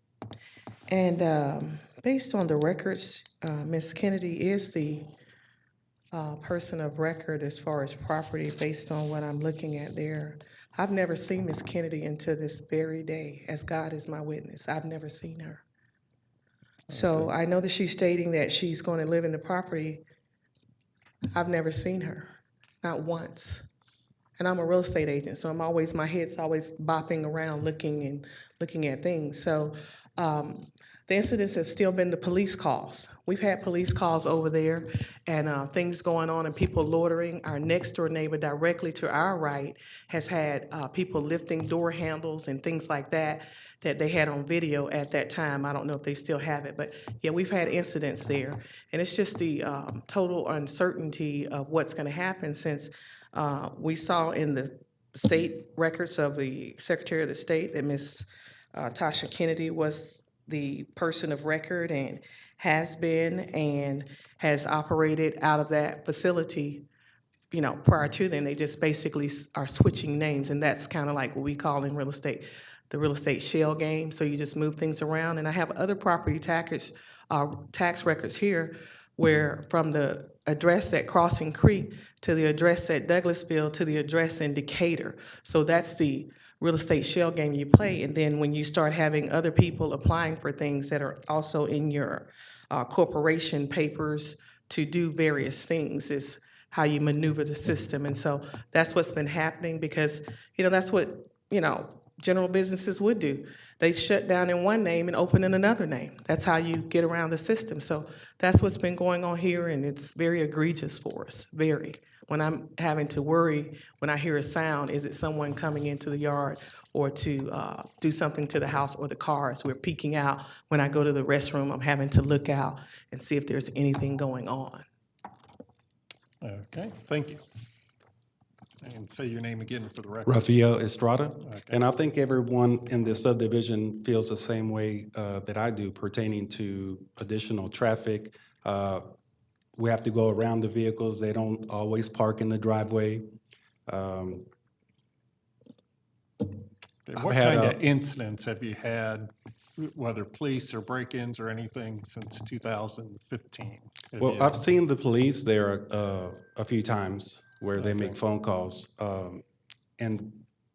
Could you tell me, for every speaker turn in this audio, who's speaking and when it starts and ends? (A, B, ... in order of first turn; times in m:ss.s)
0:00.9-0:05.1 A
0:06.1-0:15.6 A
0:16.9-0:17.3 B
0:16.9-0:20.0 A
0:21.3-0:22.3 A
0:22.8-0:23.7 A
0:24.4-1:06.8 A
1:07.5-2:04.8 A
2:06.4-2:07.4 B
2:08.8-2:10.6 B
2:10.3-2:19.1 C
2:11.4-2:11.8 B
2:19.8-2:23.3 C
2:23.9-2:24.5 C
2:27.1-2:34.7 B
2:27.1-2:27.8 C
2:34.2-2:39.4 C
2:37.8-2:38.2 B
2:40.0-2:40.4 C